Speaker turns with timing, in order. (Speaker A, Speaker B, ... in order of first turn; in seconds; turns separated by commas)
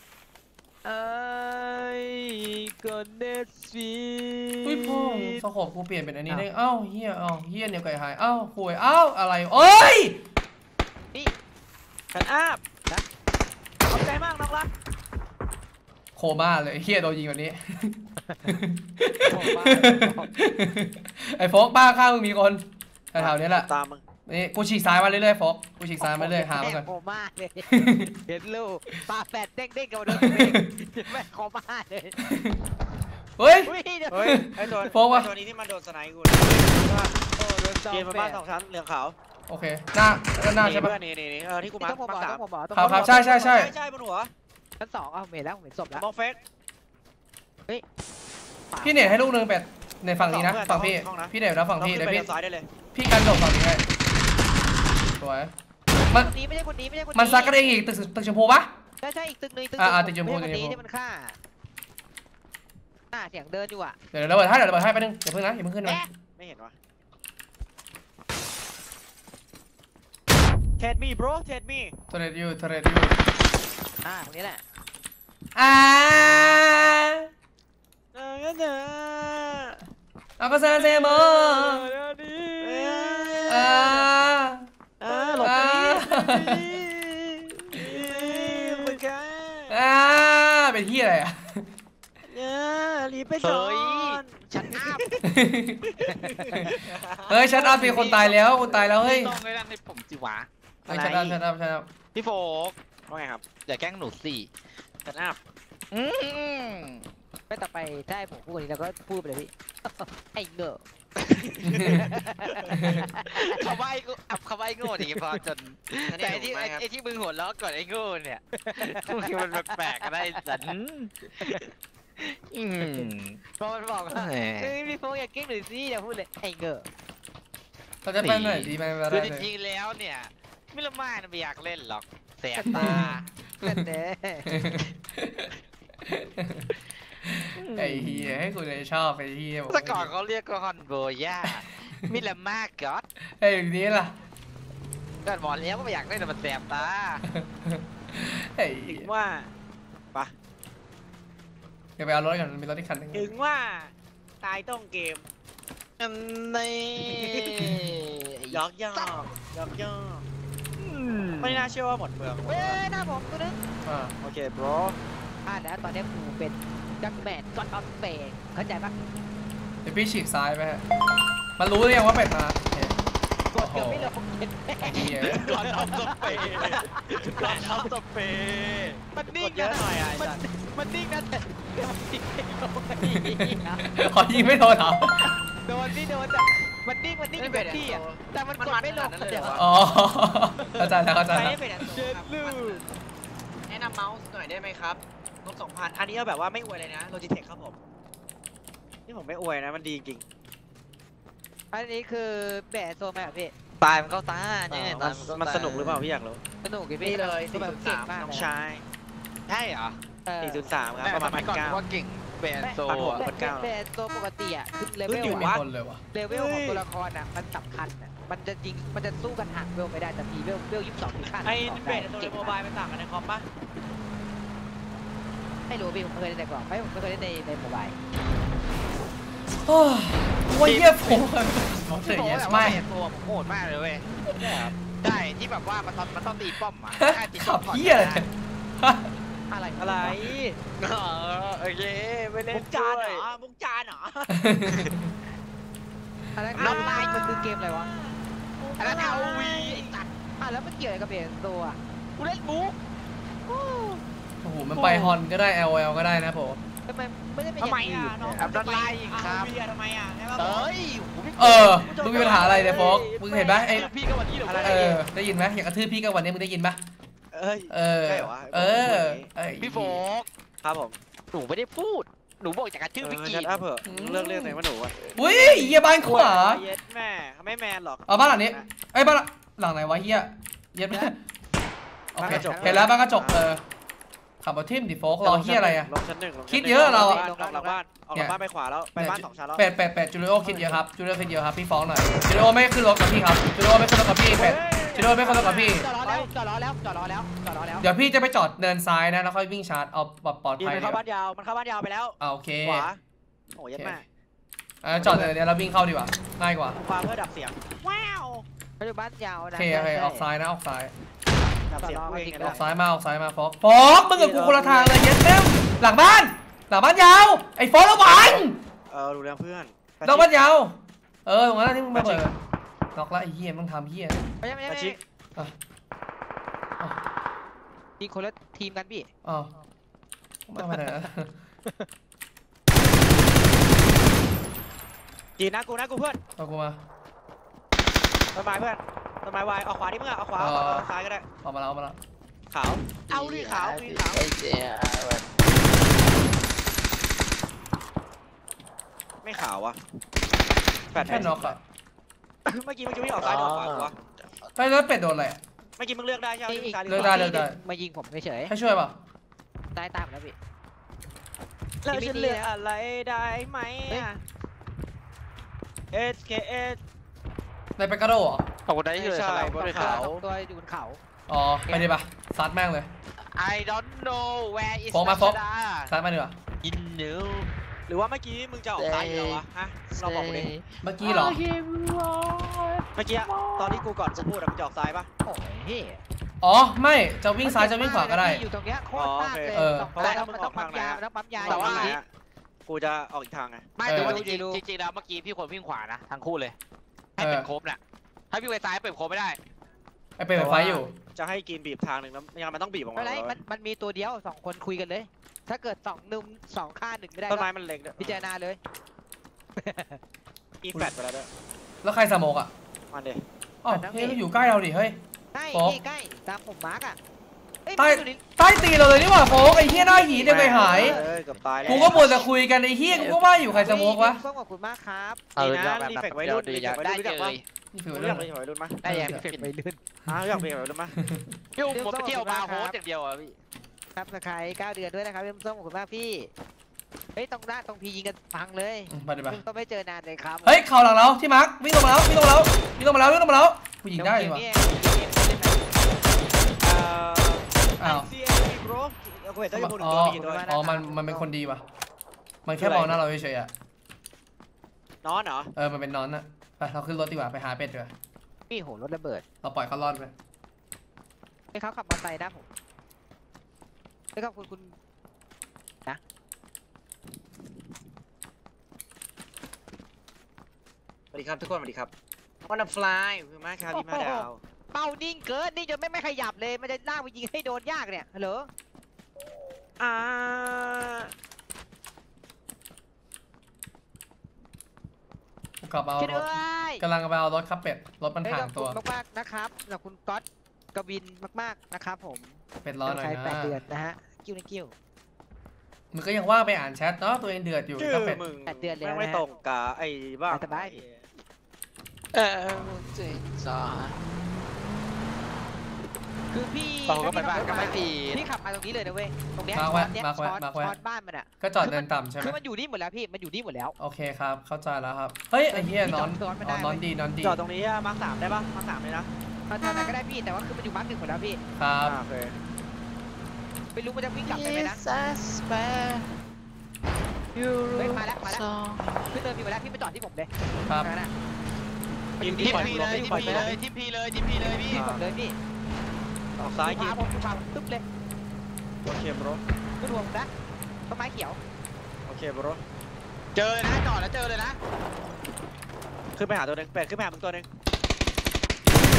Speaker A: 0.8-5.4, Speaker B: 4.6-10.2, Speaker C: 12.1-12.6, Speaker C: 13.8-14.7, Speaker B: 16.1-23.7, Speaker D: 18.2-18.6, Speaker D: 19.2-20.3, Speaker C: 23.1-24.0, Speaker B: 24.3-26.9, Speaker D: 26.0-32.2, Speaker B: 27.7-28.1, Speaker B: 30.1-30.7, Speaker B: 32.2-32.6, Speaker B: 33.4-33.7, Speaker D: 33.6-34.9, Speaker C: 34.1-37.1, Speaker B: 34.2-35.3, Speaker D: 37.4-38.4, Speaker C: 37.9-39.1, Speaker B: 39.5-41.0, Speaker C: 40.6-44.3, Speaker D: 41.8-43.4, Speaker B: 42.8-43.7, Speaker D: 44.8-46.0, Speaker C: 45.9-46.4, Speaker D: 48.7-49.2, Speaker B: 48.8-52.3, Speaker C: 50.2-52.7, Speaker B: 52.9-53.8, Speaker B: 55.2-55.5, Speaker D: 56.1-57.6, Speaker B: 57.1-58.7, Speaker D: 59.0-61.4, Speaker B: 59.8-60.8, Speaker D: 63.1-64.0, Speaker B: 64.1-66.0, Speaker C: 66.4-66.8, Speaker C: 70.8-71.9, Speaker B: 72.1-73.2, Speaker D: 74.0-74.6, Speaker B: 75.5-77.3, Speaker C: 78.1-79.8, Speaker B: 80.4-81.9, Speaker D: 81.9-84.0, Speaker C: 82.6-84.0, Speaker B: 83.5-84.7, Speaker C: 85.0-89.8, Speaker D: 85.1-85.5, Speaker B: 85.4-86.7, Speaker D: 88.0-89.0, Speaker B: 89.7-91.7, Speaker C: 92.2-95.2, Speaker A: 93.4-95.0, Speaker B: 95.2-96.0, Speaker C: 95.9-97.5, Speaker A: 96.0-96.3, Speaker B: 96.5-99.4, Speaker A: 97.5-100.5, Speaker C: 100.9-101.4, Speaker B: 100.9-101.9, Speaker A: 102.1-102.8, Speaker C: 103.1-103.4, Speaker A: 103.7-104.5, Speaker C: 105.0-105.4, Speaker A: 105.9-107.0, Speaker D: 107.5-110.8, Speaker C: 111.2-112.8, Speaker B: 111.6-112.1, Speaker D: 111.8-113.7, Speaker B: 112.8-113.1, Speaker A: 113.2-121.6, Speaker D: 114.8-115.4, Speaker C: 116.0-116.8, Speaker D: 118.5-120.7, Speaker D: 121.4-121.7, Speaker A: 122.2-124.7, Speaker D: 122.8-123.1, Speaker D: 124.1-126.9, Speaker B: 128.0-129.5, Speaker A: 128.2-133.2, Speaker B: 132.6-133.1, Speaker D: 132.7-134.5, Speaker B: 134.5-135.5, Speaker B: 136.1-136.7, Speaker B: 137.2-140.1, Speaker A: 137.6-138.4, Speaker A: 139.7-143.0, Speaker B: 143.3-144.1, Speaker A: 145.2-147.2, Speaker B: 147.3-149.1, Speaker C: 148.9-149.5, Speaker B: 152.0-153.3, Speaker C: 153.1-155.2, Speaker A: 156.0-159.2, Speaker C: 158.5-160.2, Speaker A: 160.8-161.7, Speaker C: 161.4-162.8, Speaker D: 162.5-163.6, Speaker B: 163.9-164.1, Speaker C: 164.2-165.0, Speaker D: 165.5-169.0, Speaker B: 169.8-170.8, Speaker B: 171.6-172.9, Speaker D: 173.5-177.9, Speaker B: 173.6-174.1, Speaker B: 174.8-175.5, Speaker A: 175.1-179.0, Speaker C: 175.3-177.9, Speaker D: 179.1-184.1, Speaker C: 179.4-180.4, Speaker B: 183.1-183.3, Speaker B: 183.9-185.3, Speaker D: 185.2-189.6, Speaker C: 187.4-189.7, Speaker B: 189.6-191.6, Speaker D: 190.6-190.9, Speaker C: 191.3-192.9, Speaker D: 191.9-192.8, Speaker C: 193.7-197.8, Speaker C: 199.1-200.2, Speaker D: 201.7-203.5, Speaker A: 203.8-206.0, Speaker C: 204.7-206.4, Speaker D: 206.6-208.5, Speaker C: 207.0-208.8, Speaker A: 207.1-208.1, Speaker A: 209.5-210.0, Speaker D: 210.2-210.6, Speaker C: 210.4-211.8, Speaker A: 211.0-213.2, Speaker D: 212.6-215.5, Speaker C: 212.9-213.7, Speaker C: 215.1-215.6, Speaker B: 215.2-216.0, Speaker D: 216.1-222.5, Speaker C: 216.3-216.8, Speaker C: 221.4-223.5, Speaker D: 225.7-227.9, Speaker B: 229.7-232.8, Speaker A: 230.6-231.2, Speaker A: 232.0-238.2, Speaker C: 234.3-234.8, Speaker B: 237.0-239.1, Speaker D: 239.5-240.3, Speaker C: 239.8-240.6, Speaker A: 240.8-243.3, Speaker C: 242.5-244.3, Speaker B: 244.3-245.1, Speaker D: 246.4-247.9, Speaker C: 246.5-249.9, Speaker A: 246.6-247.3, Speaker A: 248.8-250.1, Speaker D: 250.4-251.8, Speaker A: 252.2-252.8, Speaker A: 253.5-254.0, Speaker B: 254.4-256.6, Speaker A: 254.8-255.2, Speaker D: 256.9-258.4, Speaker C: 257.6-260.7, Speaker A: 258.3-259.5, Speaker A: 260.4-265.0, Speaker B: 261.4-263.9, Speaker C: 261.7-263.0, Speaker D: 263.2-263.8, Speaker C: 264.5-265.0, Speaker B: 264.6-266.8, Speaker C: 267.3-269.3, Speaker B: 267.7-270.0, Speaker A: 269.6-270.3, Speaker C: 270.6-271.0, Speaker A: 271.3-273.6, Speaker C: 273.0-275.0, Speaker B: 273.9-274.6, Speaker B: 275.1-276.6, Speaker C: 275.9-278.7, Speaker B: 278.1-281.2, Speaker B: 282.1-283.6, Speaker C: 282.2-283.4, Speaker D: 282.2-282.9, Speaker B: 284.4-285.9, Speaker C: 285.2-289.6, Speaker B: 286.5-287.2, Speaker D: 286.7-287.8, Speaker B: 289.0-295.9, Speaker D: 290.4-290.7, Speaker C: 294.3-296.3, Speaker D: 295.2-297.9, Speaker B: 297.8-301.0, Speaker C: 300.6-303.0, Speaker B: 302.2-302.9, Speaker C: 303.5-304.0, Speaker B: 304.8-306.8, Speaker C: 304.9-305.4, Speaker C: 306.8-308.5, Speaker D: 308.8-310.2, Speaker B: 309.5-310.9, Speaker C: 311.7-312.6, Speaker D: 311.8-312.6, Speaker B: 312.4-318.6, Speaker C: 314.0-315.0, Speaker C: 318.9-320.4, Speaker B: 320.0-322.4, Speaker C: 321.9-322.2, Speaker B: 322.9-324.2, Speaker D: 324.4-325.0, Speaker C: 324.7-325.0, Speaker D: 328.0-329.1, Speaker B: 329.2-329.5, Speaker B: 330.5-331.3, Speaker D: 330.6-331.1, Speaker C: 335.4-336.2, Speaker B: 336.4-336.8, Speaker C: 338.3-341.2, Speaker B: 340.4-340.9, Speaker B: 341.4-342.0, Speaker C: 342.5-344.3, Speaker A: 343.1-345.2, Speaker C: 349.2-349.8, Speaker C: 350.9-351.6, Speaker B: 351.0-351.6, Speaker C: 352.5-353.9, Speaker A: 353.2-353.9, Speaker B: 354.6-355.4, Speaker C: 355.8-357.4, Speaker D: 356.5-358.5, Speaker B: 356.9-357.6, Speaker B: 358.5-358.9, Speaker D: 359.7-360.4, Speaker C: 361.8-364.2, Speaker D: 361.9-362.5, Speaker C: 365.9-366.8, Speaker B: 367.8-368.5, Speaker A: 368.6-370.0, Speaker C: 369.0-370.2, Speaker D: 369.6-371.0, Speaker B: 371.3-372.9, Speaker A: 373.2-375.9, Speaker B: 374.9-376.4, Speaker A: 376.6-377.5, Speaker C: 377.9-380.5, Speaker A: 378.8-384.3, Speaker B: 380.8-381.4, Speaker C: 383.0-385.1, Speaker D: 385.2-386.0, Speaker B: 386.4-388.4, Speaker D: 387.4-392.0, Speaker C: 388.9-392.0, Speaker B: 389.5-389.9, Speaker A: 391.4-392.0, Speaker C: 392.6-393.7, Speaker A: 393.8-396.6, Speaker B: 393.9-394.2, Speaker D: 393.9-394.6, Speaker A: 397.2-397.8, Speaker B: 397.2-397.5, Speaker A: 398.3-399.4, Speaker B: 400.2-400.9, Speaker C: 400.4-403.4, Speaker D: 403.0-408.6, Speaker C: 407.3-408.2, Speaker D: 409.6-410.0, Speaker C: 410.6-411.3, Speaker B: 411.8-412.5, Speaker C: 412.9-413.2, Speaker B: 413.6-415.0, Speaker D: 413.7-414.2, Speaker D: 415.3-417.0, Speaker B: 415.5-415.8, Speaker D: 417.6-421.1, Speaker B: 417.8-421.0, Speaker C: 420.2-422.3, Speaker A: 420.9-422.0, Speaker B: 421.6-424.2, Speaker D: 421.7-422.0, Speaker A: 422.9-423.7, Speaker D: 423.6-425.2, Speaker A: 425.4-427.4, Speaker C: 425.4-427.4, Speaker B: 427.7-428.3, Speaker C: 427.9-428.8, Speaker A: 428.8-429.5, Speaker B: 428.8-429.2, Speaker D: 429.1-429.8, Speaker C: 430.1-431.0, Speaker B: 431.0-431.3, Speaker A: 431.6-433.4, Speaker D: 431.7-432.8, Speaker D: 434.0-436.3, Speaker D: 437.1-440.6, Speaker B: 438.9-439.4, Speaker B: 440.4-444.4, Speaker D: 444.0-445.6, Speaker C: 446.6-450.6, Speaker B: 447.8-448.1, Speaker B: 449.5-451.6, Speaker D: 450.1-451.3, Speaker B: 452.4-453.5, Speaker C: 452.6-453.0, Speaker C: 455.0-455.5, Speaker B: 455.6-457.9, Speaker D: 458.5-459.2, Speaker B: 459.4-460.1, Speaker D: 461.5-462.5, Speaker D: 464.1-464.8, Speaker C: 471.1-471.9, Speaker C: 472.4-474.4, Speaker D: 473.7-478.5, Speaker C: 479.8-481.1, Speaker B: 485.6-488.8, Speaker D: 486.0-486.8, Speaker D: 488.2-494.7, Speaker B: 492.6-493.6, Speaker B: 495.9-498.2, Speaker C: 497.8-501.0, Speaker D: 498.5-499.2, Speaker D: 500.3-500.8, Speaker A: 502.1-504.0, Speaker D: 506.3-513.7, Speaker A: 506.9-508.2, Speaker B: 509.5-510.8, Speaker B: 511.4-512.4, Speaker B: 513.8-517.4, Speaker D: 515.5-516.8, Speaker C: 517.2-519.1, Speaker D: 519.5-521.4, Speaker B: 521.6-522.0, Speaker C: 521.8-522.4, Speaker D: 523.8-524.8, Speaker A: 524.2-526.1, Speaker A: 527.3-529.1, Speaker D: 527.7-528.4, Speaker D: 529.1-530.3, Speaker D: 530.8-531.1, Speaker D: 532.2-533.6, Speaker C: 532.2-533.6, Speaker A: 532.4-534.9, Speaker C: 534.4-535.1, Speaker D: 534.7-535.4, Speaker C: 536.4-537.0, Speaker D: 536.6-537.8, Speaker C: 538.8-539.4, Speaker D: 539.8-540.3, Speaker D: 540.9-541.4, Speaker C: 542.1-542.6, Speaker A: 543.4-544.6, Speaker C: 546.1-547.5